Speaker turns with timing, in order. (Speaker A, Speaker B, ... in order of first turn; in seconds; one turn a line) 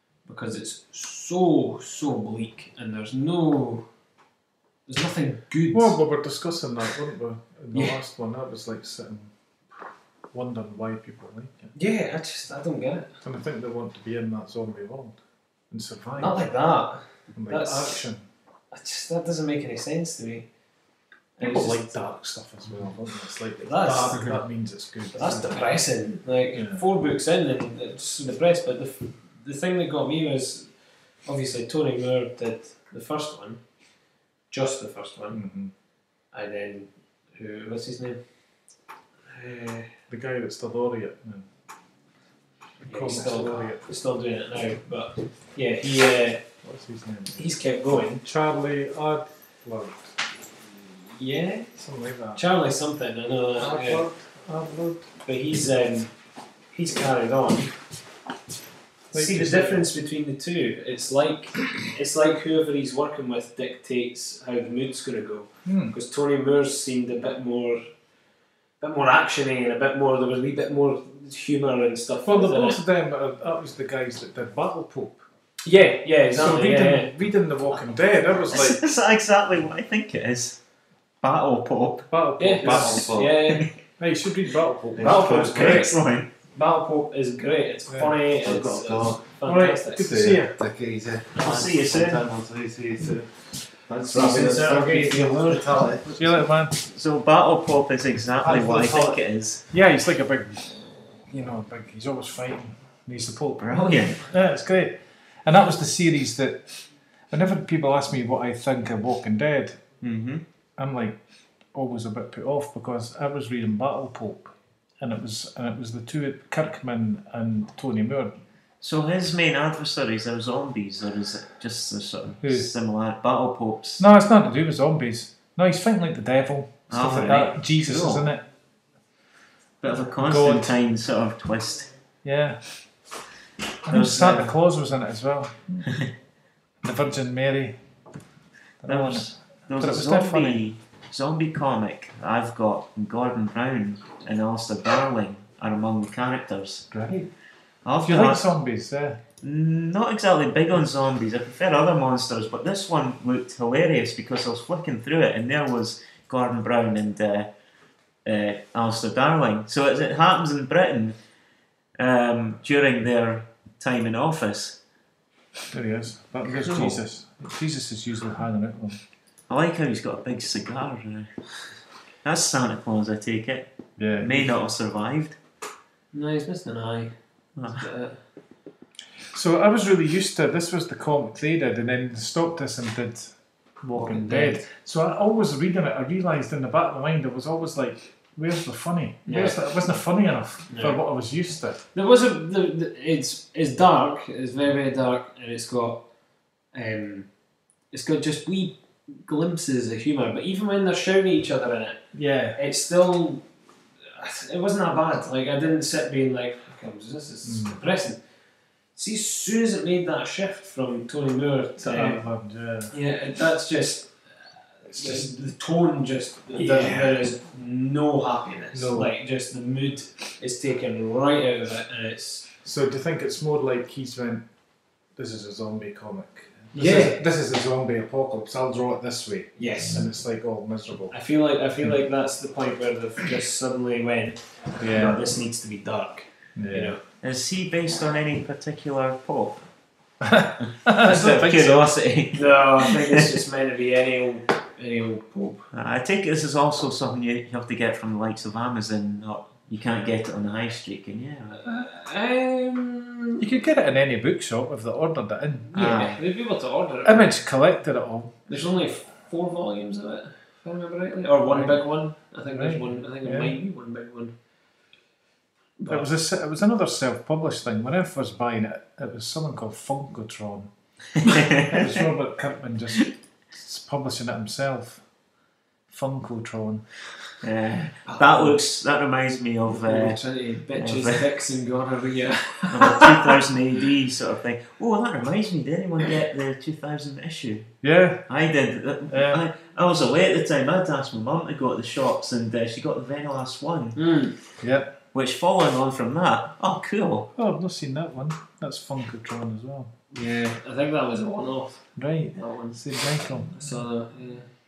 Speaker A: 0.2-3.9
Speaker A: 4.9-6.0
Speaker B: 5.7-9.3
Speaker A: 7.7-8.0
Speaker B: 10.3-11.7
Speaker A: 11.8-13.1
Speaker B: 13.2-15.2
Speaker B: 15.7-16.5
Speaker A: 16.2-18.0
Speaker B: 17.3-18.2
Speaker A: 18.7-20.5
Speaker A: 21.4-22.0
Speaker B: 21.4-25.8
Speaker A: 23.6-24.3
Speaker A: 25.1-30.7
Speaker B: 26.5-26.8
Speaker A: 31.2-33.6
Speaker A: 34.5-35.4
Speaker B: 35.3-35.7
Speaker A: 36.3-38.2
Speaker A: 39.3-39.9
Speaker B: 40.1-41.5
Speaker A: 42.8-46.4
Speaker B: 42.8-43.9
Speaker B: 46.6-47.5
Speaker A: 47.3-48.2
Speaker B: 48.2-50.1
Speaker A: 51.1-51.7
Speaker B: 51.8-52.4
Speaker A: 52.4-54.1
Speaker B: 53.6-55.1
Speaker A: 55.2-56.1
Speaker A: 56.7-57.7
Speaker B: 59.1-59.9
Speaker A: 59.1-67.8
Speaker B: 65.7-65.9
Speaker A: 68.8-72.8
Speaker B: 72.2-75.2
Speaker A: 75.7-77.1
Speaker B: 76.3-78.8
Speaker C: 78.5-80.6
Speaker C: 81.2-82.1
Speaker B: 82.1-83.1
Speaker A: 82.4-83.7
Speaker D: 82.6-83.3
Speaker C: 83.5-83.8
Speaker B: 84.0-85.5
Speaker D: 85.0-85.9
Speaker A: 85.0-90.1
Speaker C: 85.1-86.3
Speaker B: 87.9-88.2
Speaker D: 88.4-89.2
Speaker B: 89.4-90.6
Speaker D: 90.0-93.3
Speaker C: 91.3-92.3
Speaker D: 93.9-96.2
Speaker A: 94.1-95.9
Speaker B: 96.2-96.8
Speaker C: 96.8-99.7
Speaker B: 99.7-106.7
Speaker C: 103.6-104.3
Speaker B: 107.3-109.8
Speaker C: 110.0-110.4
Speaker B: 110.8-111.2
Speaker B: 111.7-118.3
Speaker C: 118.8-124.1
Speaker B: 122.4-122.7
Speaker B: 124.0-128.4
Speaker C: 126.9-128.2
Speaker C: 129.8-131.9
Speaker B: 130.2-130.8
Speaker B: 132.2-132.6
Speaker B: 133.8-135.9
Speaker C: 133.9-134.6
Speaker B: 136.8-137.8
Speaker B: 138.8-140.7
Speaker C: 138.9-146.9
Speaker B: 146.9-147.3
Speaker C: 147.8-148.4
Speaker B: 148.0-149.2
Speaker C: 149.4-157.5
Speaker C: 158.2-161.2
Speaker C: 162.0-164.8
Speaker B: 165.7-169.0
Speaker A: 166.5-166.9
Speaker C: 169.5-171.3
Speaker C: 172.2-173.7
Speaker B: 174.0-174.5
Speaker C: 174.2-175.4
Speaker A: 176.1-177.2
Speaker C: 177.6-177.8
Speaker A: 177.7-178.2
Speaker B: 179.3-191.8
Speaker A: 183.9-184.7
Speaker A: 189.3-189.6
Speaker A: 190.7-191.0
Speaker A: 191.9-196.0
Speaker A: 196.7-197.3
Speaker A: 197.9-202.0
Speaker B: 202.1-202.6
Speaker A: 202.6-203.5
Speaker A: 204.1-208.2
Speaker B: 207.4-207.8
Speaker A: 208.9-212.2
Speaker B: 211.8-212.9
Speaker A: 212.9-222.5
Speaker B: 214.9-215.3
Speaker B: 216.5-217.2
Speaker B: 218.7-219.1
Speaker B: 222.6-224.4
Speaker B: 225.2-231.1
Speaker A: 226.7-227.2
Speaker A: 229.6-230.1
Speaker A: 231.1-237.0
Speaker B: 234.8-235.2
Speaker B: 236.6-236.9
Speaker C: 237.2-239.7
Speaker B: 240.2-241.8
Speaker C: 240.8-243.3
Speaker A: 242.3-245.7
Speaker C: 245.7-251.6
Speaker A: 251.6-253.5
Speaker B: 253.4-255.9
Speaker A: 255.7-257.3
Speaker C: 255.7-256.2
Speaker B: 257.0-258.4
Speaker A: 258.5-264.3
Speaker B: 261.5-261.9
Speaker B: 262.5-263.6
Speaker A: 265.8-266.1
Speaker B: 265.9-270.7
Speaker C: 271.2-271.9
Speaker B: 271.6-275.0
Speaker B: 275.9-276.9
Speaker C: 277.4-280.2
Speaker A: 278.1-278.6
Speaker A: 279.7-283.1
Speaker C: 280.7-281.2
Speaker C: 282.7-287.7
Speaker B: 287.8-288.3
Speaker C: 288.3-294.0
Speaker B: 289.1-289.4
Speaker A: 294.0-294.4
Speaker B: 294.6-294.9
Speaker C: 295.1-297.3
Speaker B: 297.4-299.9
Speaker A: 300.1-302.9
Speaker B: 302.0-303.6
Speaker A: 303.4-304.5